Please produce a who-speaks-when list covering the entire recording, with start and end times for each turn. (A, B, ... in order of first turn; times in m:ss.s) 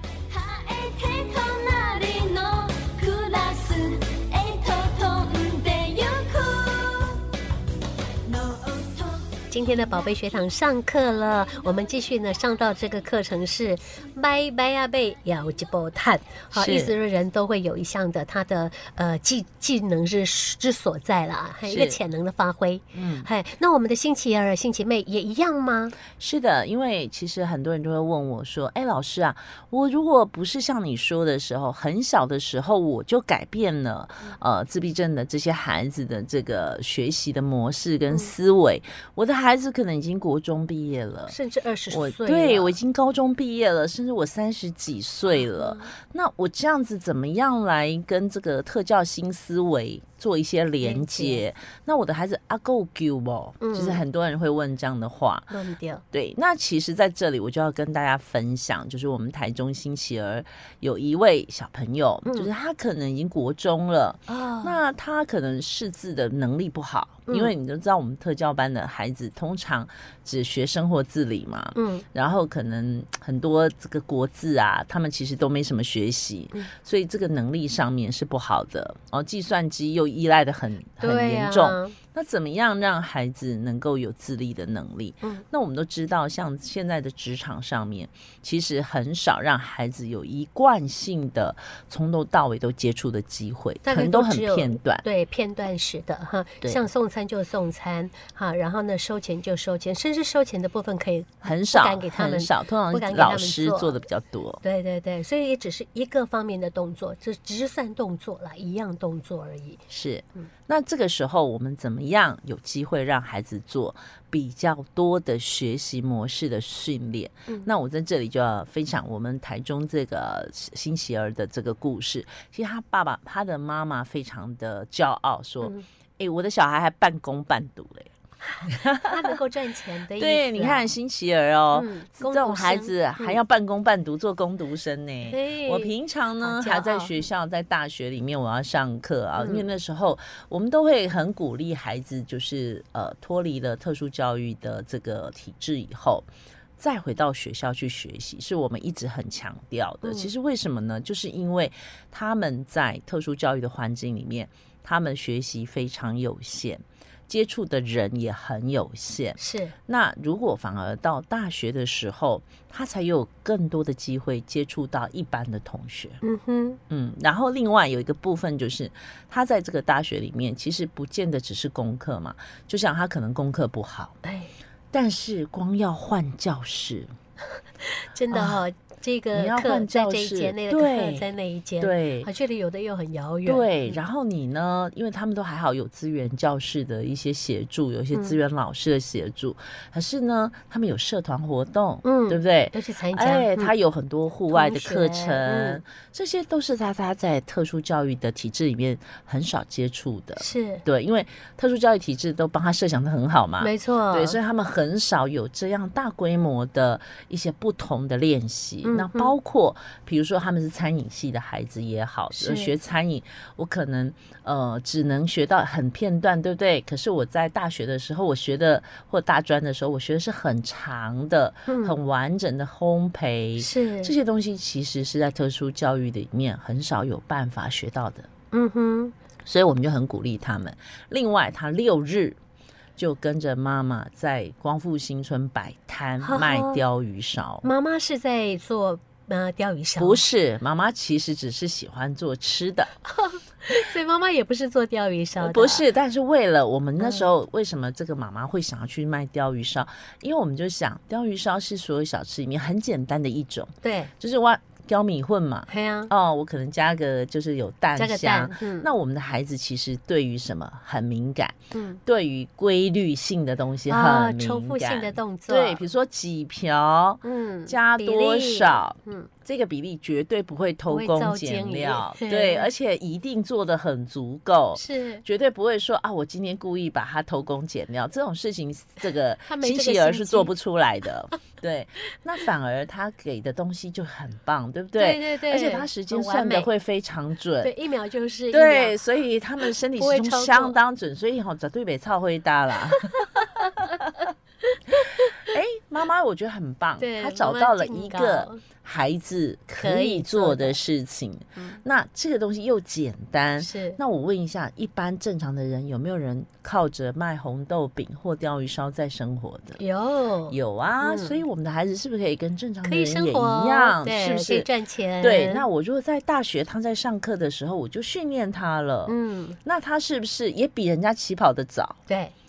0:00.4-0:07.1 A
0:08.4-0:26.0 A
0:16.5-0:17.0 B
0:21.7-0:22.0 B
0:22.9-0:23.3 B
0:26.1-0:41.4 B
0:41.3-0:42.8 A
0:41.9-0:55.5 B
0:45.3-0:45.9 A
0:50.8-0:51.4 A
0:53.6-0:54.0 A
0:55.5-0:56.0 A
0:56.1-1:35.0 B
1:04.3-1:04.8 A
1:07.3-1:07.5 A
1:11.8-1:12.0 A
1:21.0-1:22.0 A
1:33.8-1:44.0 A
1:41.4-1:44.6 B
1:44.6-1:49.8 A
1:49.9-2:08.1 B
2:08.5-2:10.9 A
2:08.6-2:09.4 B
2:10.2-2:26.3 B
2:11.7-2:13.4 A
2:15.3-2:17.3 A
2:19.4-2:19.7 A
2:26.8-2:46.2 B
2:30.0-2:30.3 A
2:39.4-2:39.8 A
2:46.2-2:46.8 A
2:46.9-2:54.2 B
2:54.2-2:54.5 A
2:54.9-2:57.1 B
2:57.8-3:04.0 A
2:58.3-2:58.6 B
2:59.3-3:01.3 B
3:01.8-3:02.3 B
3:03.5-3:48.3 B
3:12.0-3:13.7 A
3:14.5-3:15.8 A
3:20.4-3:20.8 A
3:23.6-3:24.4 A
3:28.8-3:29.3 A
3:32.3-3:32.7 A
3:41.7-3:42.0 A
3:43.6-3:44.2 A
3:48.5-3:49.2 A
3:49.5-3:52.4 B
3:53.0-3:57.7 B
3:56.2-3:56.8 A
3:57.6-4:00.2 A
4:00.0-4:02.9 B
4:03.1-4:05.9 A
4:05.4-4:21.6 B
4:07.0-4:07.3 A
4:13.8-4:14.1 A
4:15.7-4:16.1 A
4:18.0-4:18.9 A
4:21.7-4:22.0 A
4:22.1-4:47.7 B
4:23.9-4:25.8 A
4:27.2-4:29.3 A
4:30.9-4:32.7 A
4:34.8-4:35.2 A
4:39.4-4:40.5 A
4:45.0-4:46.7 A
4:47.6-4:49.0 A
4:48.5-4:53.3 B
4:49.9-4:50.8 A
4:52.9-4:54.1 A
4:54.7-4:55.5 A
4:55.5-5:09.8 B
4:57.0-4:58.6 A
4:59.8-5:00.8 A
5:03.6-5:04.0 A
5:09.8-5:11.4 A
5:10.5-5:14.7 B
5:12.8-5:15.7 A
5:15.2-5:22.0 B
5:19.1-5:19.6 A
5:22.1-5:22.3 A